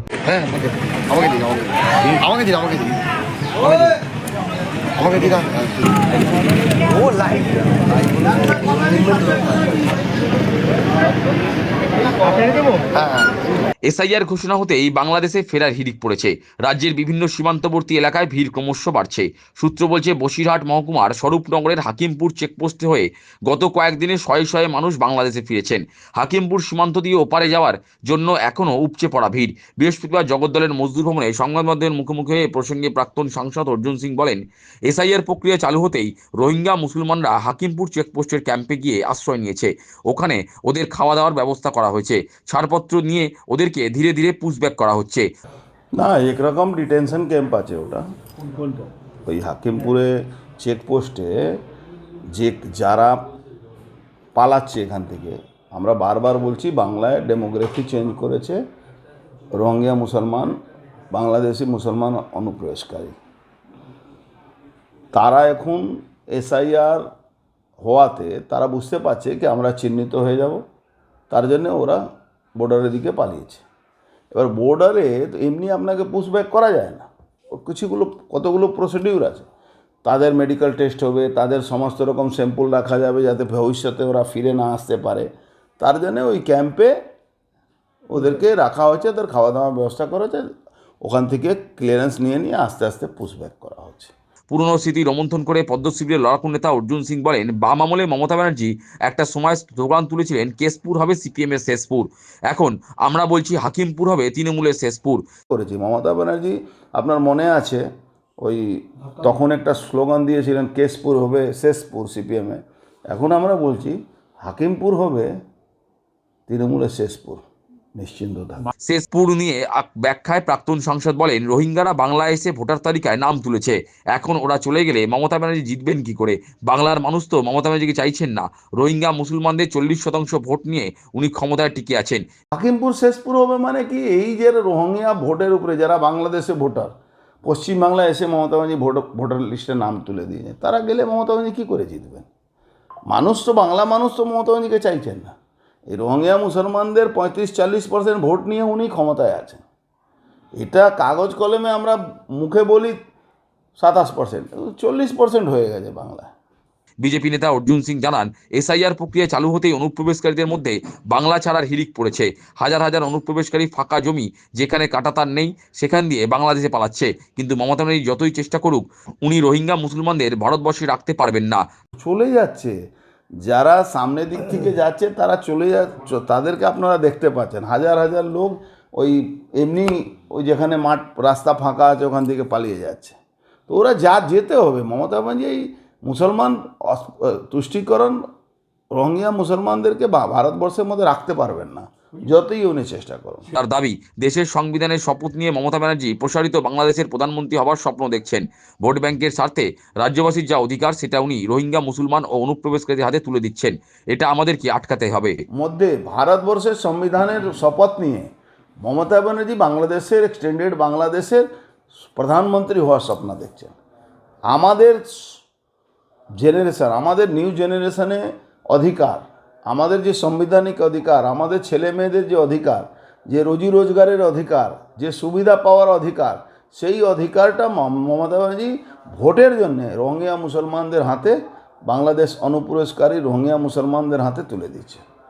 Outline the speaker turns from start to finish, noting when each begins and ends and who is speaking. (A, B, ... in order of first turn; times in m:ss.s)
0:00.2-0:03.0 A
0:03.6-0:03.9 B
0:05.0-0:05.8 A
0:06.9-0:07.5 A
0:08.1-0:09.5 A
0:12.4-0:13.2 A
0:13.8-0:45.3 B
0:46.0-0:48.0 C
0:49.2-0:51.4 C
0:52.3-0:53.2 C
0:54.4-0:58.6 C
0:59.6-1:00.5 C
1:01.1-1:03.2 C
1:05.1-1:07.0 C
1:07.8-1:10.6 C
1:11.3-1:12.0 C
1:12.6-1:13.6 C
1:14.3-1:19.5 C
1:20.0-1:25.3 C
1:25.8-1:26.9 C
1:28.1-1:30.5 C
1:31.0-1:34.1 C
1:34.5-1:45.2 B
1:45.5-1:47.8 C
1:48.4-1:55.3 C
1:56.5-1:57.4 C
1:58.0-1:58.7 C
1:58.8-2:12.2 B
2:12.5-2:16.9 C
2:17.4-2:22.3 C
2:23.1-2:25.3 C
2:25.9-2:29.6 C
2:30.6-2:33.0 C
2:33.8-2:36.3 C
2:37.0-2:51.6 B
2:52.0-2:52.8 C
2:53.4-3:03.2 C
3:03.7-3:08.2 C
3:09.0-3:13.5 C
3:13.5-3:25.4 B
3:25.5-3:28.3 C
3:28.8-3:31.4 C
3:32.1-3:33.8 C
3:34.5-3:35.4 C
3:36.4-3:51.4 C
3:51.9-3:55.0 C